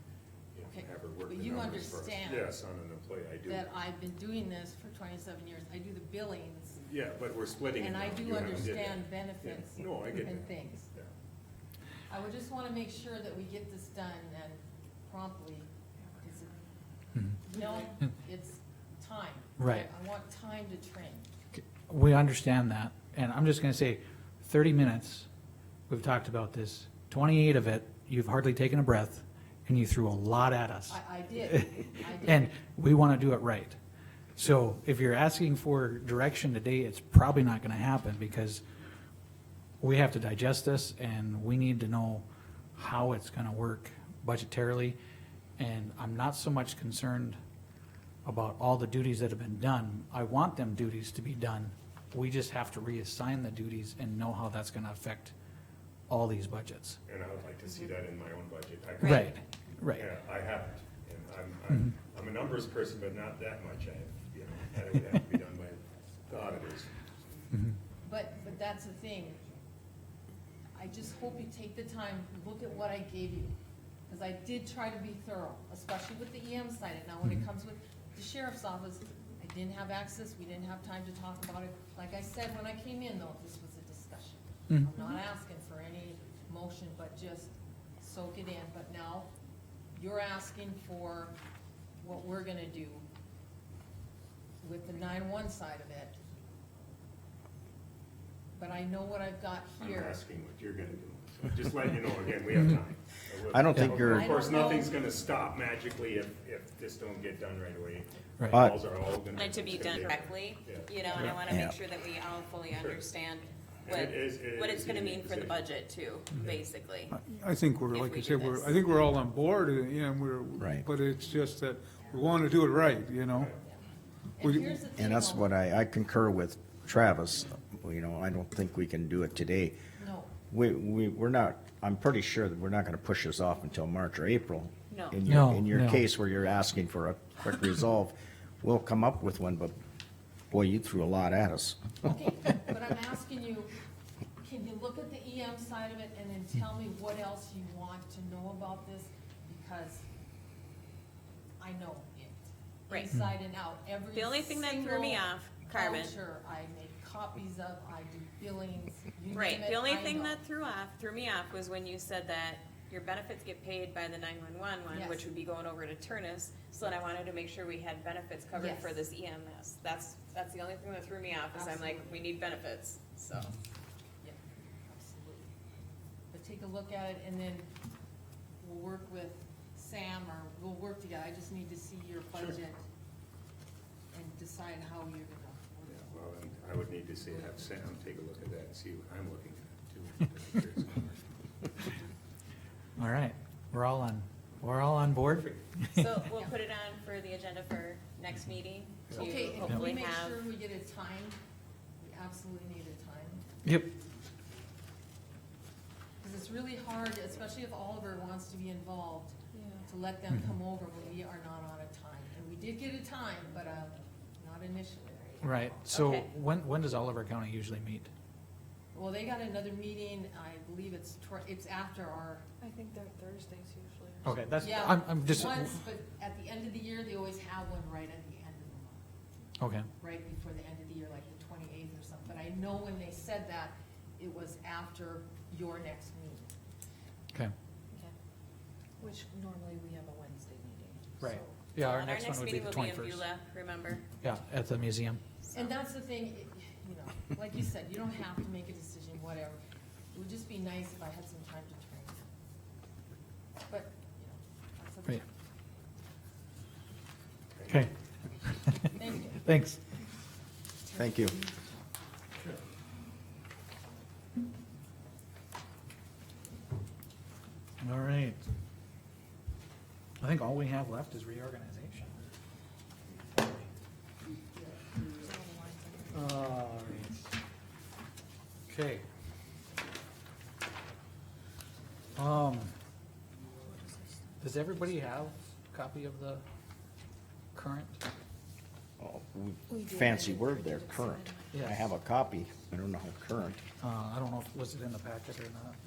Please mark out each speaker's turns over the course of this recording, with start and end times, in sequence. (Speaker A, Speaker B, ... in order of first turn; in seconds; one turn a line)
Speaker A: 0.5-3.7
Speaker B: 0.7-2.5
Speaker B: 3.5-6.8
Speaker A: 6.8-11.1
Speaker B: 7.8-10.9
Speaker B: 12.1-16.6
Speaker B: 17.5-21.3
Speaker C: 19.6-19.9
Speaker C: 21.6-25.3
Speaker C: 25.9-33.8
Speaker B: 30.9-32.6
Speaker C: 34.4-38.6
Speaker C: 39.8-45.0
Speaker C: 45.6-47.4
Speaker C: 48.2-55.3
Speaker C: 56.1-57.0
Speaker A: 57.0-59.4
Speaker D: 59.0-59.4
Speaker C: 59.0-60.1
Speaker A: 59.9-66.9
Speaker C: 67.5-67.8
Speaker B: 68.0-69.4
Speaker B: 70.8-73.5
Speaker B: 74.1-89.3
Speaker B: 89.9-91.4
Speaker B: 92.0-93.1
Speaker B: 94.6-96.2
Speaker B: 98.5-100.2
Speaker A: 99.8-111.3
Speaker E: 103.5-104.3
Speaker C: 103.7-104.3
Speaker B: 104.0-105.0
Speaker E: 108.5-108.8
Speaker D: 109.3-117.2
Speaker E: 111.5-111.8
Speaker A: 112.7-113.1
Speaker A: 113.8-115.7
Speaker F: 117.1-123.5
Speaker D: 117.9-118.7
Speaker E: 120.6-120.9
Speaker B: 124.4-125.5
Speaker F: 124.4-124.8
Speaker E: 125.0-129.8
Speaker B: 130.0-130.3
Speaker E: 130.5-139.7
Speaker D: 134.9-135.2
Speaker C: 135.3-136.0
Speaker E: 140.5-142.0
Speaker B: 142.0-143.7
Speaker B: 144.4-150.1
Speaker B: 151.6-160.4
Speaker D: 154.1-156.2
Speaker D: 159.3-173.6
Speaker B: 164.9-165.3
Speaker B: 168.5-169.0
Speaker B: 171.5-172.3
Speaker B: 174.2-175.5
Speaker B: 176.3-177.7
Speaker B: 178.6-182.8
Speaker B: 184.1-186.2
Speaker A: 185.9-191.7
Speaker C: 193.0-196.2
Speaker D: 195.9-200.4
Speaker B: 199.1-201.4
Speaker B: 202.0-203.4
Speaker C: 203.7-203.9
Speaker B: 206.2-215.8
Speaker G: 209.5-209.9
Speaker C: 215.4-218.1
Speaker D: 215.9-216.3
Speaker B: 218.9-222.4
Speaker G: 222.6-224.9
Speaker C: 224.2-225.7
Speaker B: 224.6-229.0
Speaker C: 229.6-229.9
Speaker B: 230.0-236.5
Speaker G: 239.0-241.4
Speaker C: 241.2-243.3
Speaker D: 241.8-244.0
Speaker C: 244.2-245.2
Speaker B: 245.5-249.6
Speaker B: 250.1-252.2
Speaker B: 253.7-255.3
Speaker A: 257.6-257.9
Speaker C: 257.7-257.9
Speaker C: 258.4-259.8
Speaker B: 258.9-259.4
Speaker B: 260.9-261.6
Speaker E: 260.9-261.4
Speaker C: 267.8-268.4
Speaker C: 270.2-272.2
Speaker C: 273.4-273.7
Speaker G: 275.1-276.3
Speaker C: 276.1-277.2
Speaker C: 278.7-279.1
Speaker C: 282.2-282.7
Speaker G: 283.6-284.5
Speaker C: 284.4-286.4
Speaker C: 287.5-288.0
Speaker E: 289.0-293.6
Speaker G: 289.7-291.7
Speaker C: 291.5-291.8
Speaker C: 293.8-295.8